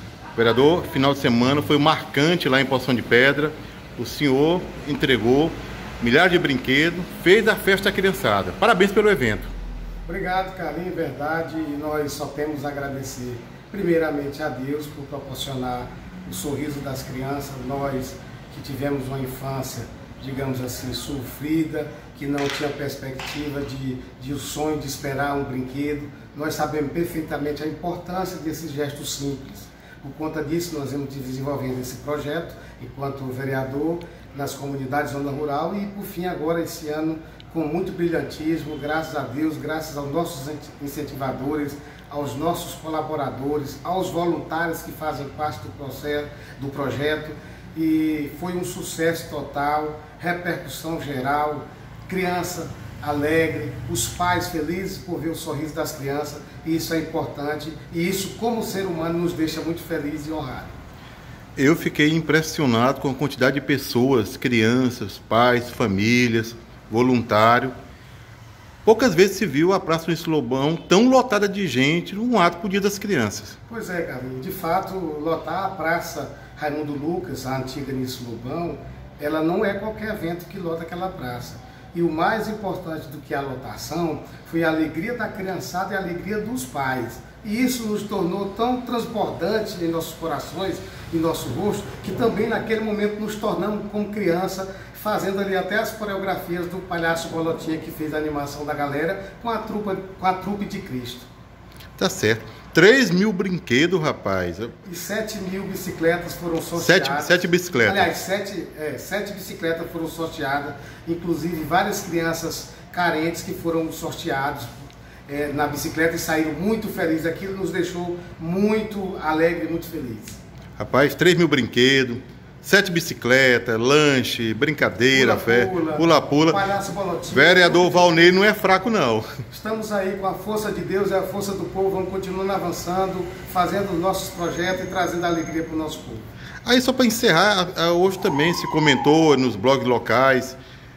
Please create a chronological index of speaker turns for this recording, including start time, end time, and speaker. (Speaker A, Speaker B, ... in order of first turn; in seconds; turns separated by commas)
Speaker A: 0.3-9.5, Speaker B: 10.1-60.8, Speaker A: 61.5-67.7, Speaker A: 68.8-73.5, Speaker B: 73.7-101.3, Speaker A: 102.0-104.7, Speaker B: 104.8-114.7, Speaker A: 106.8-108.1, Speaker B: 115.3-120.4, Speaker A: 120.8-126.7, Speaker B: 125.1-128.4, Speaker A: 127.3-129.3, Speaker B: 129.5-136.3, Speaker A: 136.6-140.6